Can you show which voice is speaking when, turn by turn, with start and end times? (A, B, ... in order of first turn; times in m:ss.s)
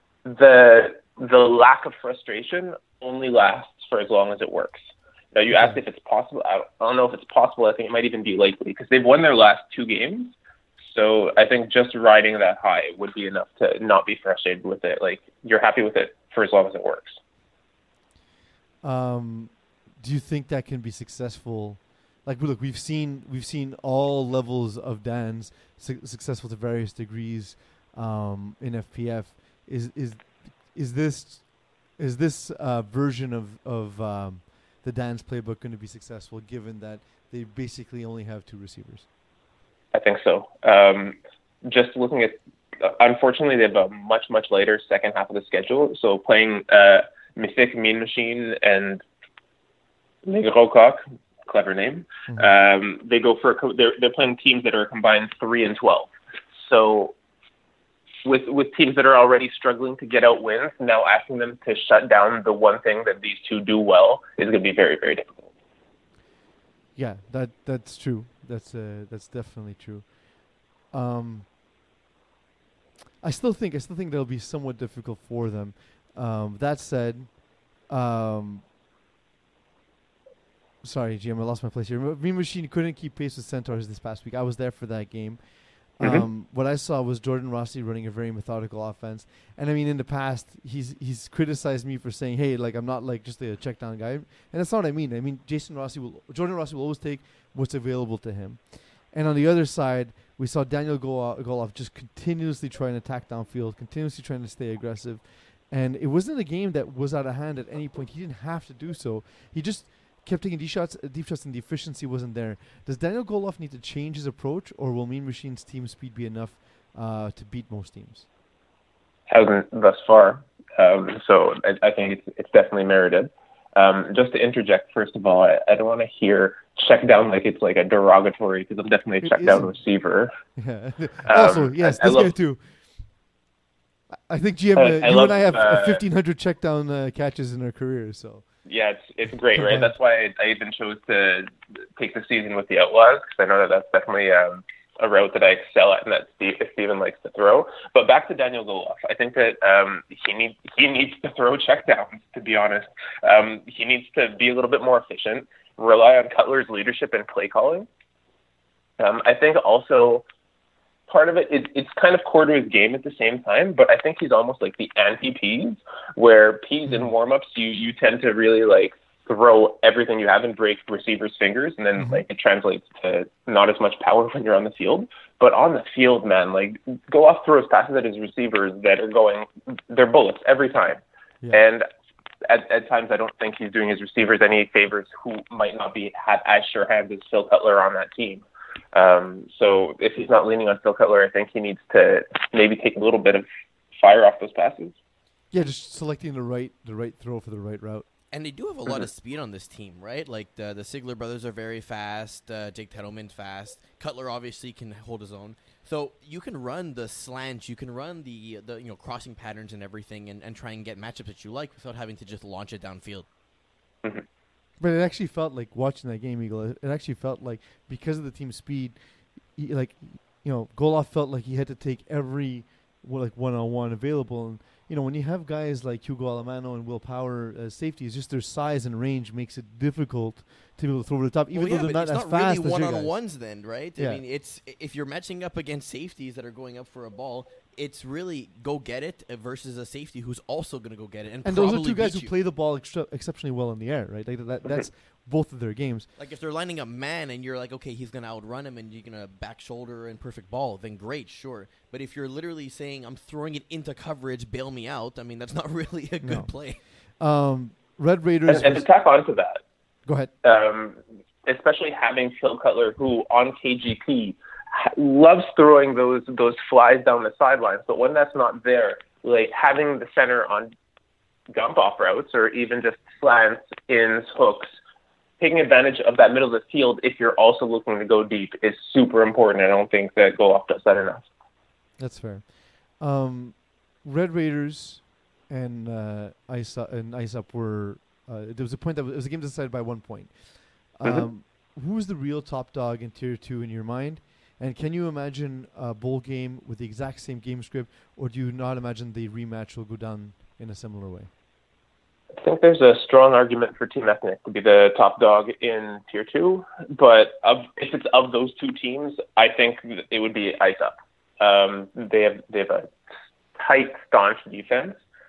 0:00.2-0:04.8 A
0:05.3-0:17.2 A
0:05.5-0:05.8 B
0:18.8-0:39.1 B
0:39.9-0:49.0 A
0:50.2-0:57.2 A
0:58.2-1:05.3 A
1:07.0-1:11.5 B
1:13.2-1:18.7 B
1:20.8-1:58.3 B
1:59.3-2:10.3 A
2:09.2-2:09.7 B
2:10.6-2:12.6 B
2:11.2-2:12.3 A
2:14.3-2:18.4 B
2:14.8-2:16.0 A
2:18.7-2:37.9 A
2:19.6-2:19.9 B
2:39.0-2:40.3 A
2:41.1-3:01.9 A
2:52.0-2:52.2 B
3:02.4-3:15.0 A
3:15.5-3:18.1 B
3:18.3-3:33.3 C
3:34.8-3:39.0 B
3:39.6-3:53.1 B
3:51.5-4:02.3 C
3:54.0-3:54.2 B
4:01.4-4:06.1 B
4:06.2-4:16.8 C
4:16.2-4:16.5 B
4:17.2-4:18.9 B
4:18.5-4:19.6 A
4:20.1-4:20.3 B
4:20.4-4:30.7 A
4:31.5-4:34.7 A
4:35.4-4:41.2 A
4:42.0-5:01.3 B
5:02.4-5:12.9 A
5:13.6-5:15.0 A